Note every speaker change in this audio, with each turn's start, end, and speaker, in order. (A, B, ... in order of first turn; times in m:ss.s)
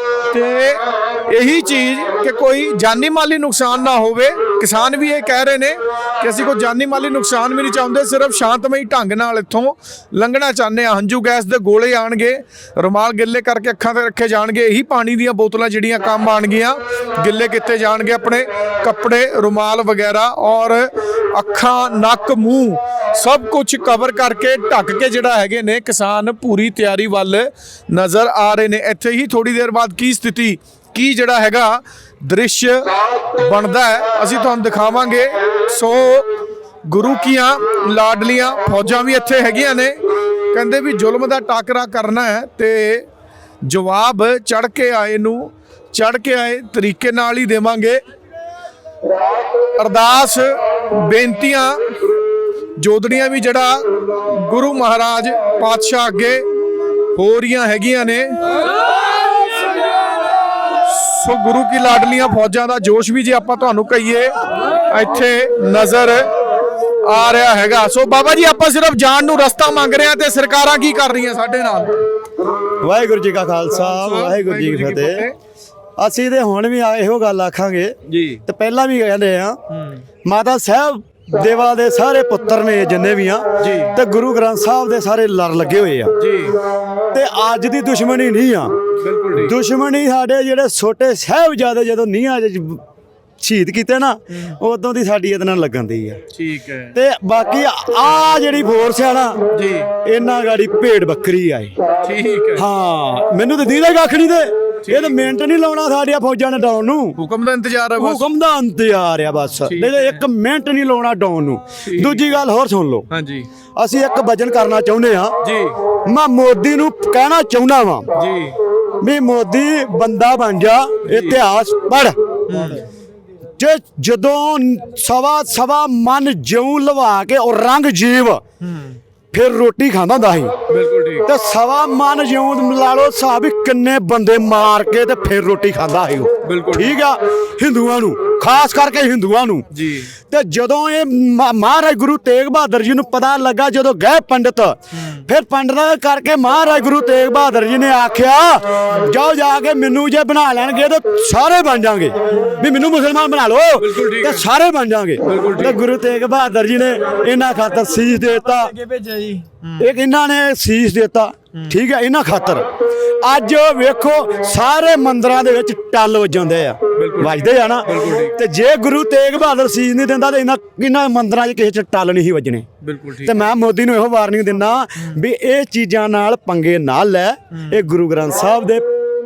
0:00.3-0:36.3 A
0:36.9-0:40.0 A
0:40.5-0:43.1 A
0:43.7-0:48.0 A
0:49.8-0:51.8 A
0:52.8-0:56.4 A
0:57.1-0:58.4 A
1:00.7-1:06.3 A
1:07.0-1:12.0 A
1:12.8-1:15.2 B
1:13.8-1:15.3 A
1:16.0-1:19.6 B
1:18.1-1:18.4 A
1:20.2-1:26.1 B
1:23.6-1:24.0 A
1:26.2-1:26.6 A
1:27.1-1:28.7 B
1:29.0-1:29.5 A
1:29.3-1:32.8 B
1:33.4-1:36.2 B
1:36.3-1:36.9 A
1:36.9-1:39.4 B
1:39.5-1:39.9 A
1:40.0-1:41.8 B
1:42.0-1:42.6 A
1:42.6-1:47.2 B
1:44.8-1:45.3 A
1:47.2-1:48.2 A
1:48.0-1:53.1 B
1:49.6-1:50.2 A
1:51.8-1:52.4 A
1:53.1-1:53.5 A
1:53.8-1:55.4 B
1:55.4-1:55.8 A
1:56.0-1:58.1 B
1:58.2-1:58.6 A
1:59.0-2:02.2 B
2:01.0-2:01.4 A
2:02.5-2:02.8 A
2:03.6-2:08.4 B
2:08.6-2:08.9 A
2:09.3-2:10.5 B
2:10.7-2:11.3 A
2:11.2-2:19.7 B
2:16.4-2:17.0 A
2:19.7-2:20.1 A
2:20.3-2:38.7 B
2:25.0-2:25.2 A
2:33.8-2:34.4 A
2:35.2-2:35.8 A
2:38.8-2:39.9 A
2:39.8-2:42.6 B
2:43.2-2:52.7 B
2:46.9-2:48.4 A
2:52.8-2:53.4 A
2:53.2-2:58.9 B